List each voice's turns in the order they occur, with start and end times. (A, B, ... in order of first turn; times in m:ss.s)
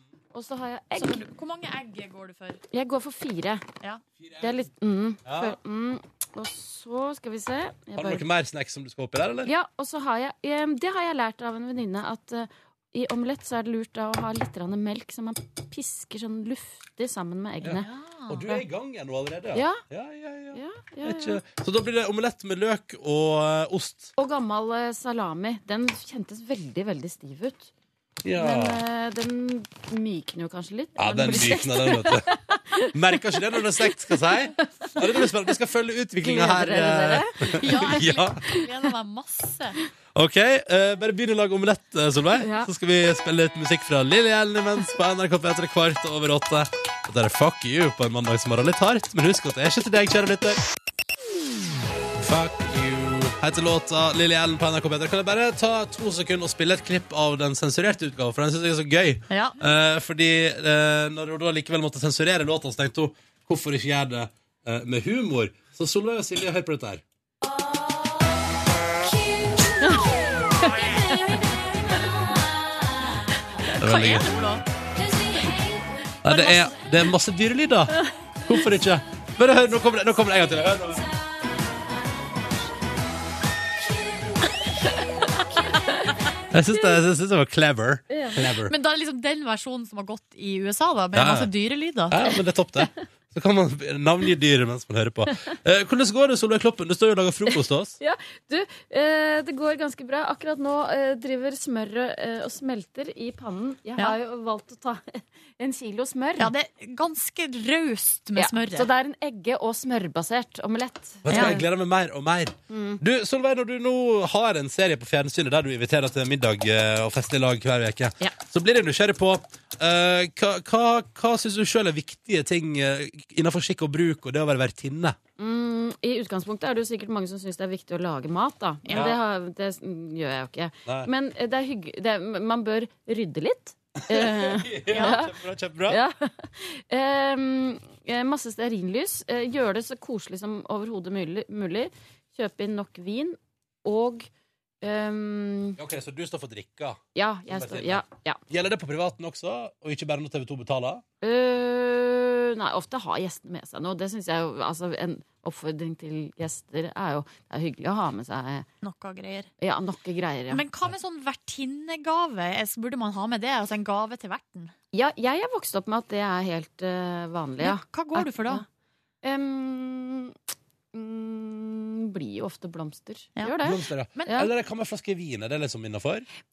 0:00.3-0:01.2 A
0:01.0-0:02.6 B
0:02.7-0:03.6 A
0:04.2-0:04.6 C
0:04.4-0:08.2 A
0:05.2-0:05.6 C
0:08.0-0:09.5 C
0:09.5-0:17.9 A
0:17.6-0:24.1 C
0:17.7-0:18.6 B
0:19.5-0:19.8 A
0:20.5-0:21.4 A
0:24.2-0:27.7 A
0:28.2-0:28.8 C
0:28.4-0:33.0 A
0:31.0-0:32.3 C
0:32.9-0:38.4 C
0:34.6-0:35.3 A
0:36.2-0:38.7 A
0:37.5-0:39.8 B
0:40.2-0:50.6 C
0:42.4-0:42.7 A
0:52.2-1:07.0 C
0:59.3-0:59.6 B
1:10.6-1:10.9 A
1:13.6-1:14.6 B
1:13.8-1:14.3 C
1:16.2-1:21.1 C
1:16.3-1:16.6 B
1:26.5-1:28.7 C
1:28.1-1:28.5 A
1:28.7-1:32.3 B
1:31.1-1:31.5 C
1:32.1-1:38.0 C
1:38.0-1:46.5 A
1:46.4-1:48.9 B
1:48.4-1:51.7 A
1:51.2-2:05.2 C
1:51.3-1:51.6 B
1:52.7-1:53.0 A
2:05.4-2:24.3 A
2:08.8-2:09.2 B
2:08.9-2:09.2 C
2:14.1-2:16.0 C
2:14.9-2:15.1 B
2:24.8-2:25.8 A
2:25.8-2:31.0 C
2:27.2-2:28.4 A
2:31.2-2:38.7 A
2:38.8-2:39.5 B
2:39.6-2:40.6 A
2:40.5-2:44.7 B
2:44.9-2:48.7 A
2:47.6-2:48.6 B
2:49.2-2:50.4 A
2:50.9-2:54.5 A
2:53.6-2:56.3 C